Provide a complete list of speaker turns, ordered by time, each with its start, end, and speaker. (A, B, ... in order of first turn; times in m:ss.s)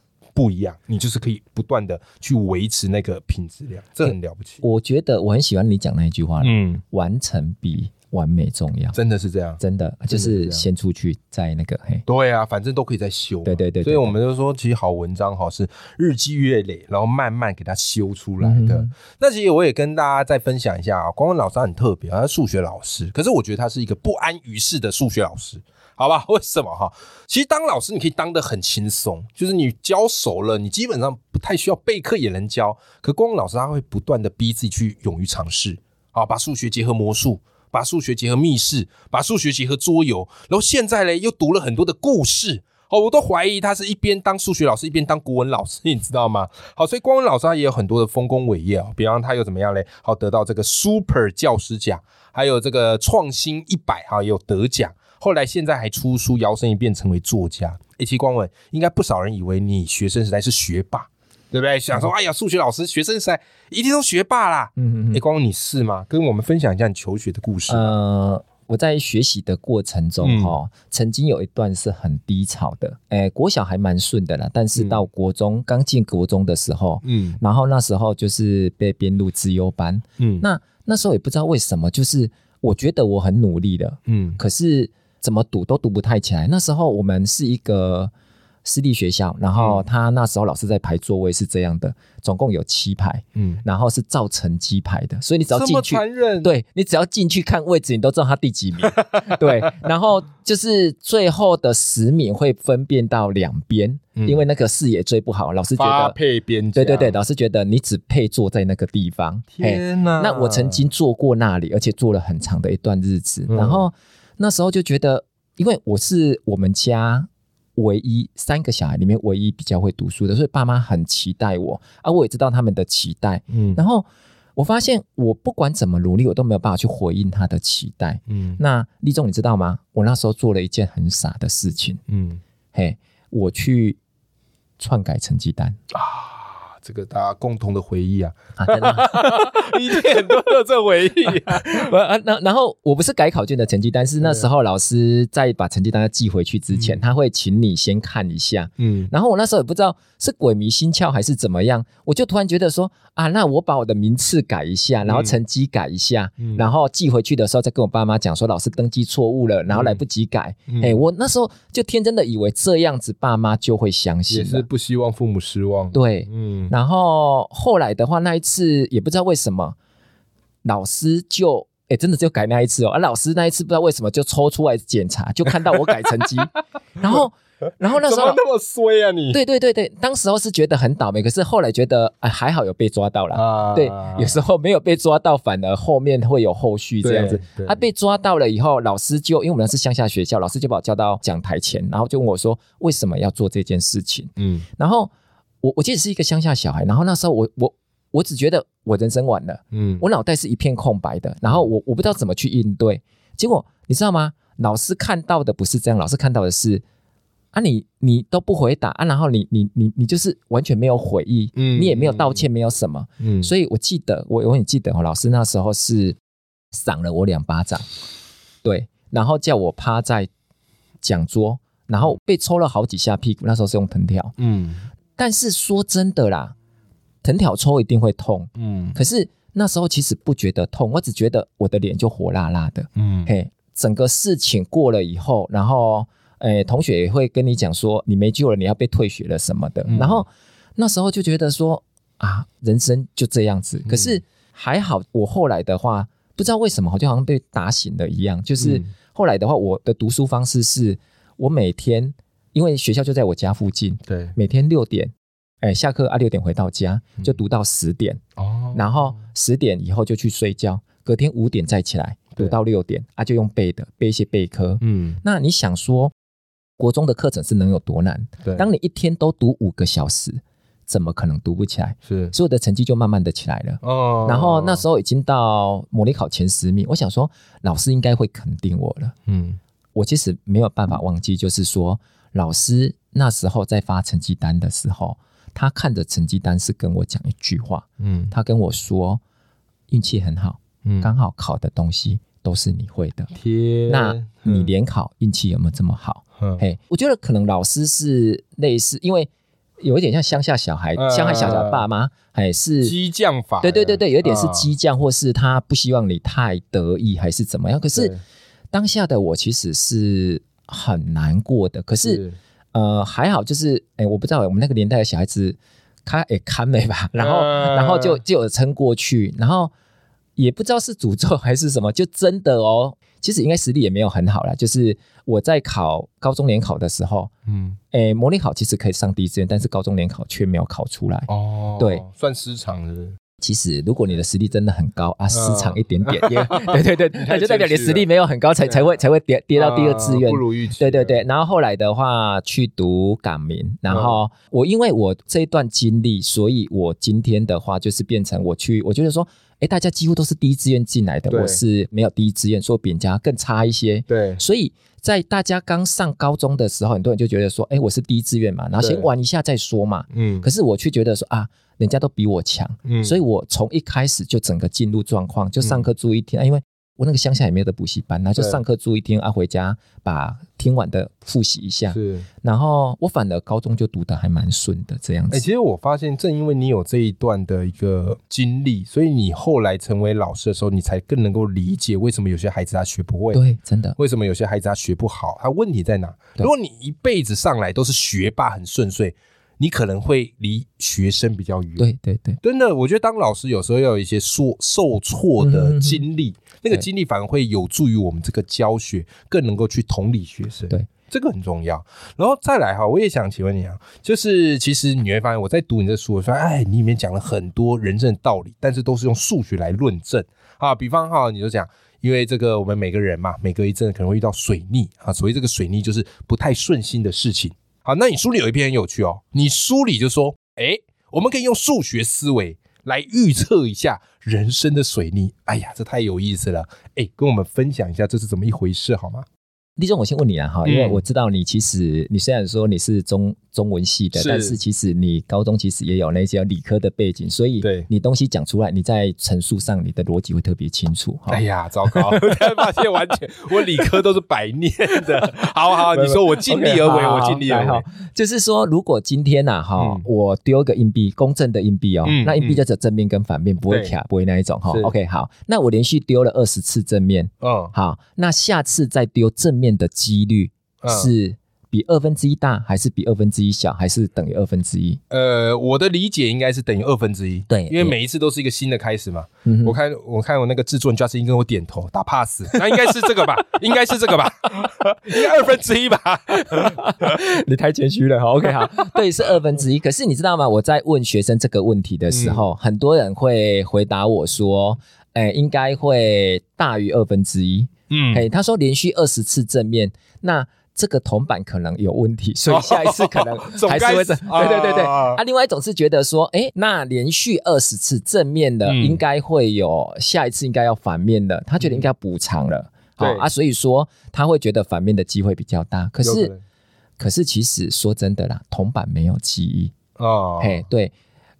0:00.4-0:04.6 A
0:04.0-0:09.0 B
0:06.4-0:06.8 A
0:08.9-0:10.6 A
0:09.6-0:12.0 B
0:12.1-1:07.9 A
0:13.4-0:14.1 B
0:18.4-0:18.9 B
1:04.8-1:05.2 B
1:07.7-1:28.1 B
1:10.2-1:10.6 A
1:14.8-1:15.0 A
1:17.0-1:17.4 A
1:20.2-1:20.4 A
1:24.1-1:24.4 A
1:28.6-1:46.2 B
1:29.6-1:29.8 A
1:33.4-1:33.6 A
1:35.5-1:36.5 A
1:38.9-1:39.3 A
1:44.2-1:44.4 A
1:45.8-1:47.2 A
1:46.8-2:12.0 B
1:49.5-1:50.8 A
1:53.5-1:53.9 A
2:03.5-2:03.8 A
2:08.3-2:08.6 A
2:12.1-2:12.4 A
2:12.7-2:14.0 B
2:14.8-2:15.8 B
2:15.9-2:21.9 A
2:18.6-2:20.0 B
2:21.4-2:44.7 B
2:26.7-2:27.0 A
2:28.8-2:29.1 A
2:35.0-2:35.4 A
2:36.4-2:36.7 A
2:39.7-2:40.0 A
2:40.7-2:41.0 A
2:44.3-2:46.7 A
2:45.9-2:49.8 B
2:50.6-2:58.4 B
2:57.8-2:59.4 A
2:59.3-3:15.1 B
3:03.3-3:04.4 A
3:07.0-3:07.8 A
3:14.4-3:14.7 A
3:15.6-3:26.8 B
3:19.7-3:20.0 A
3:27.5-3:36.2 B
3:31.6-3:32.4 A
3:33.2-3:33.5 A
3:36.7-3:37.9 B
3:38.6-3:40.3 B
3:41.0-3:44.4 B
3:44.4-3:44.9 A
3:45.2-3:46.6 B
3:47.2-4:18.2 B
3:48.6-3:49.0 A
3:53.0-3:53.3 A
3:59.9-4:00.2 A
4:03.8-4:04.2 A
4:08.6-4:08.9 A
4:14.1-4:14.4 A
4:18.4-4:19.2 A
4:18.7-4:26.1 B
4:24.8-4:25.2 A
4:26.8-4:39.2 B
4:32.1-4:32.4 A
4:33.8-4:34.8 A
4:39.3-4:39.6 A
4:40.0-4:49.2 B
4:48.0-4:48.3 A
4:49.9-4:53.3 B
4:50.8-4:51.1 A
4:53.3-4:54.7 A
4:53.9-4:59.3 B
4:56.4-4:56.6 A
4:59.8-5:03.0 B
5:01.0-5:01.9 A
5:02.8-5:04.7 A
5:03.6-5:08.2 B
5:07.9-5:08.2 A
5:08.7-5:12.2 B
5:12.0-5:12.4 A
5:12.7-5:19.7 B
5:17.2-5:18.2 A
5:20.4-5:27.3 B
5:27.5-5:27.8 A
5:27.9-5:32.0 B
5:31.3-5:33.2 A
5:33.4-6:15.5 B
5:35.3-5:38.1 A
5:39.6-5:41.2 A
5:43.9-5:44.2 A
5:51.3-5:51.6 A
5:54.1-5:54.4 A
5:58.8-5:59.1 A
6:00.1-6:00.5 A
6:02.8-6:03.2 A
6:05.6-6:05.9 A
6:11.9-6:12.3 A
6:15.3-6:23.4 A
6:23.3-6:24.0 B
6:24.0-6:31.9 A
6:31.8-6:32.4 B
6:32.4-7:09.3 A
6:35.4-6:36.0 B
7:09.8-7:22.6 B
7:10.6-7:11.0 A
7:14.1-7:14.6 A
7:17.6-7:17.9 A
7:21.3-7:27.9 A
7:25.9-7:45.0 B
7:29.8-7:30.0 A
7:32.0-7:32.6 A
7:33.7-7:34.0 A
7:34.7-7:34.9 A
7:37.4-7:37.7 A
7:40.8-7:41.1 A
7:45.1-7:57.1 A
7:47.5-7:48.0 B
7:49.4-7:49.8 B
7:56.5-8:26.3 B
8:02.1-8:02.5 A
8:07.9-8:08.3 A
8:12.5-8:15.2 A
8:18.6-8:19.0 A
8:21.6-8:21.9 A
8:23.0-8:23.3 A
8:26.0-8:26.4 A
8:27.0-8:29.7 B
8:30.0-8:30.7 A
8:30.4-8:30.9 B